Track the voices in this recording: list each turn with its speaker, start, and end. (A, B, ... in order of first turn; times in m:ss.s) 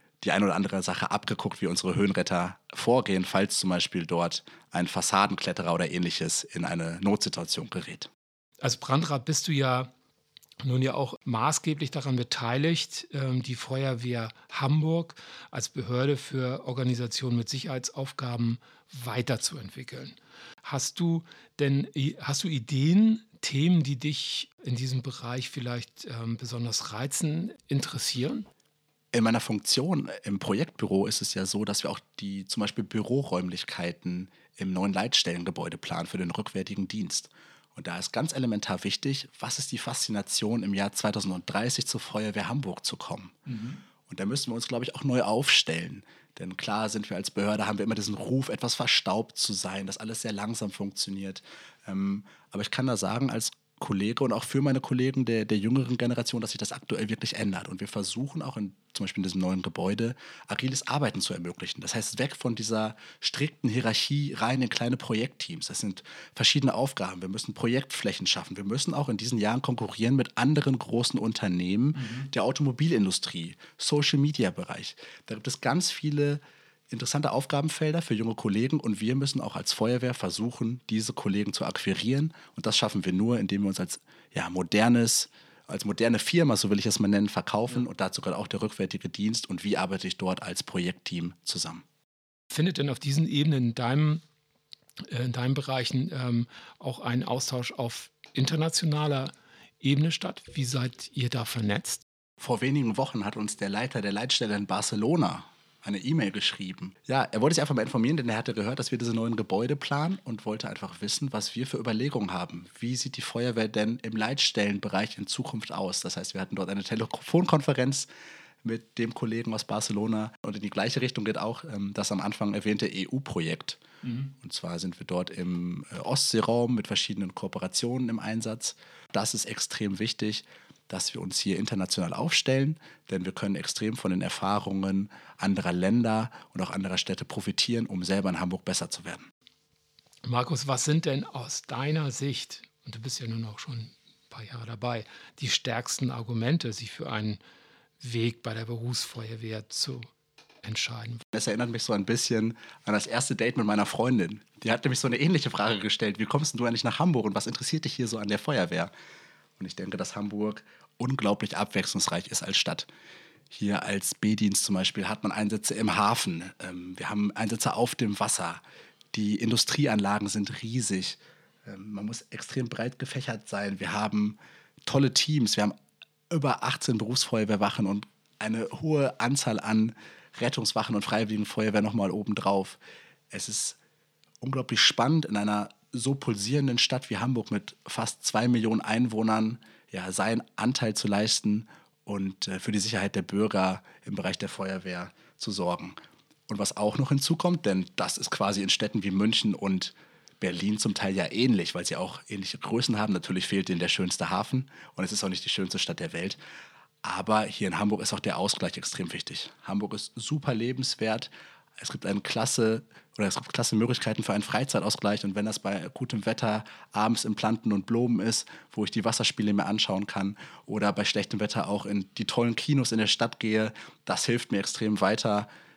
0:00.2-0:08.1 A
0:08.6-0:09.9 B
0:10.6-0:28.5 B
0:29.1-0:43.5 A
0:43.5-0:43.8 B
0:44.0-1:31.8 A
1:32.5-1:34.2 B
1:35.1-1:42.0 B
1:42.4-1:58.1 A
1:58.6-2:19.3 A
2:20.2-2:27.4 B
2:28.0-2:30.1 B
2:30.6-2:31.2 B
2:31.3-2:38.9 A
2:39.6-2:42.9 A
2:43.5-2:48.6 A
2:49.1-2:55.7 A
2:56.3-3:02.8 A
3:03.3-3:03.8 A
3:04.4-3:16.0 A
3:16.5-3:26.4 A
3:27.0-3:45.5 A